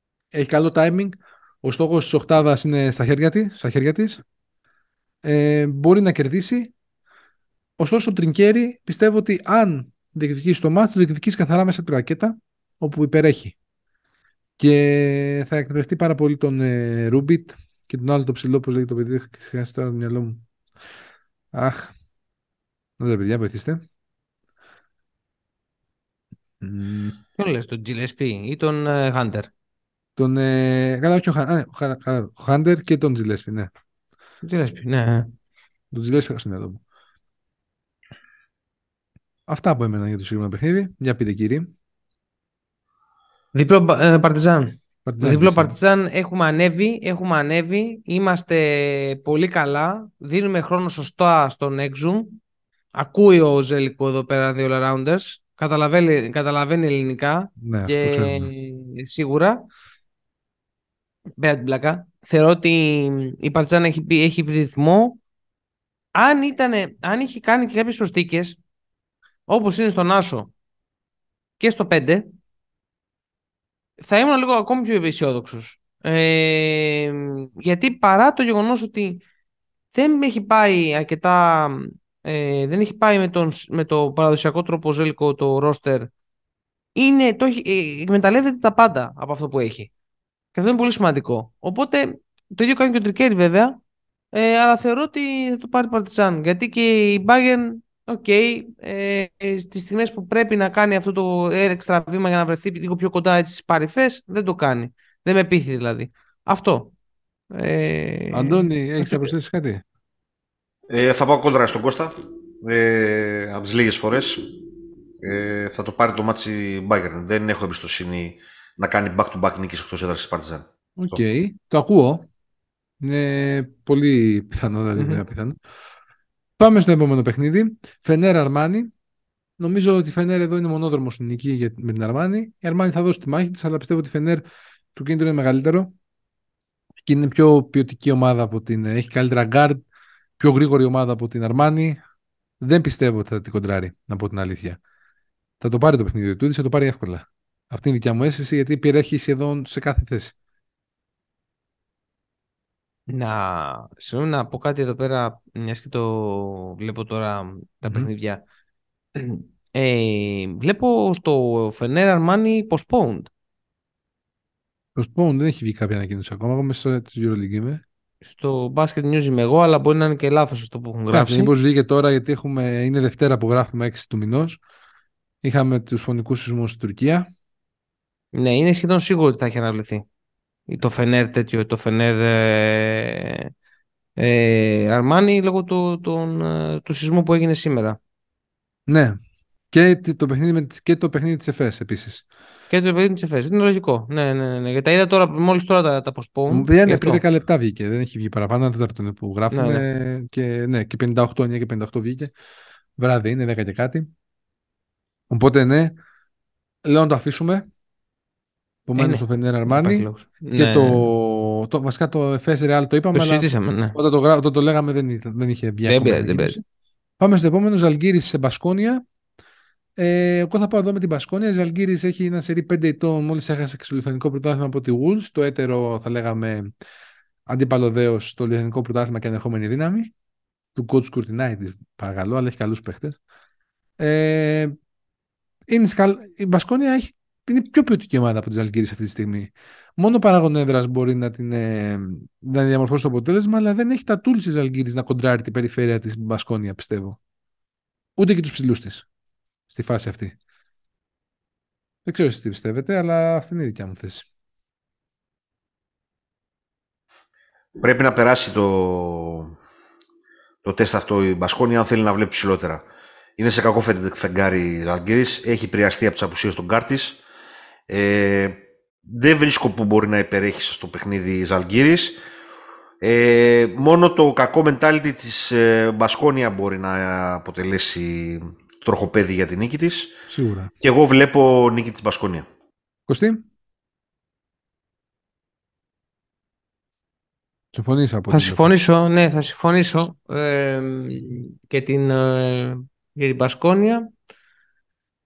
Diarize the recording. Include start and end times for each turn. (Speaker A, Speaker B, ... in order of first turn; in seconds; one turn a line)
Speaker A: 0.3-4.2
Speaker A: 5.2-6.7
Speaker A: 7.8-13.5
Speaker A: 14.6-20.4
Speaker A: 21.5-21.9
Speaker A: 23.0-23.8
Speaker A: 26.6-27.2
Speaker B: 27.4-29.5
Speaker A: 30.2-33.7
Speaker B: 34.4-35.3
Speaker A: 35.9-36.8
Speaker A: 39.5-41.7
Speaker B: 43.5-52.4
Speaker A: 45.0-45.7
Speaker B: 52.9-59.6
Speaker A: 57.6-58.5
Speaker B: 61.4-65.2
Speaker B: 66.1-68.6
Speaker B: 69.5-70.5
Speaker B: 71.6-72.3
Speaker B: 74.0-79.2
Speaker B: 79.9-86.1
Speaker B: 86.9-89.9
Speaker B: 90.5-93.8
Speaker B: 94.3-106.9
Speaker B: 107.5-109.3
Speaker A: 108.3-109.8
Speaker C: 110.9-114.4
Speaker C: 115.2-121.2
Speaker A: 121.0-122.3
Speaker A: 123.0-125.5
Speaker B: 125.0-125.2
Speaker A: 126.6-128.9
Speaker A: 129.6-135.9
Speaker A: 137.0-139.8
Speaker A: 140.4-142.0
Speaker A: 142.6-144.8
Speaker A: 145.6-150.3
Speaker B: 153.1-158.4
Speaker B: 159.1-163.3
Speaker A: 164.9-167.8
Speaker B: 168.2-171.5
Speaker A: 171.1-174.6
Speaker A: 175.4-177.3
Speaker B: 178.3-180.1
Speaker B: 180.7-183.5
Speaker B: 184.2-188.0
Speaker A: 188.9-189.2
Speaker A: 189.7-192.2
Speaker B: 192.7-197.2
Speaker A: 196.5-202.3
Speaker B: 199.5-199.8
Speaker A: 203.0-204.1
Speaker A: 205.3-205.9
Speaker A: 206.8-207.7
Speaker A: 208.9-216.6
Speaker B: 209.0-211.1
Speaker B: 213.1-213.9
Speaker B: 215.9-216.6
Speaker A: 217.2-219.0
Speaker A: 220.0-226.7
Speaker A: 227.5-230.1
Speaker A: 230.7-233.2
Speaker A: 234.0-234.7
Speaker A: 235.7-247.2
Speaker A: 248.2-249.1
Speaker A: 249.7-250.3
Speaker A: 252.0-254.3
Speaker C: 257.8-259.5
Speaker C: 260.6-262.8
Speaker C: 263.4-267.2
Speaker C: 267.9-272.2
Speaker C: 273.0-280.1
Speaker A: 280.3-280.7
Speaker C: 280.8-282.5
Speaker A: 283.1-283.4
Speaker A: 287.7-288.8
Speaker B: 288.3-294.1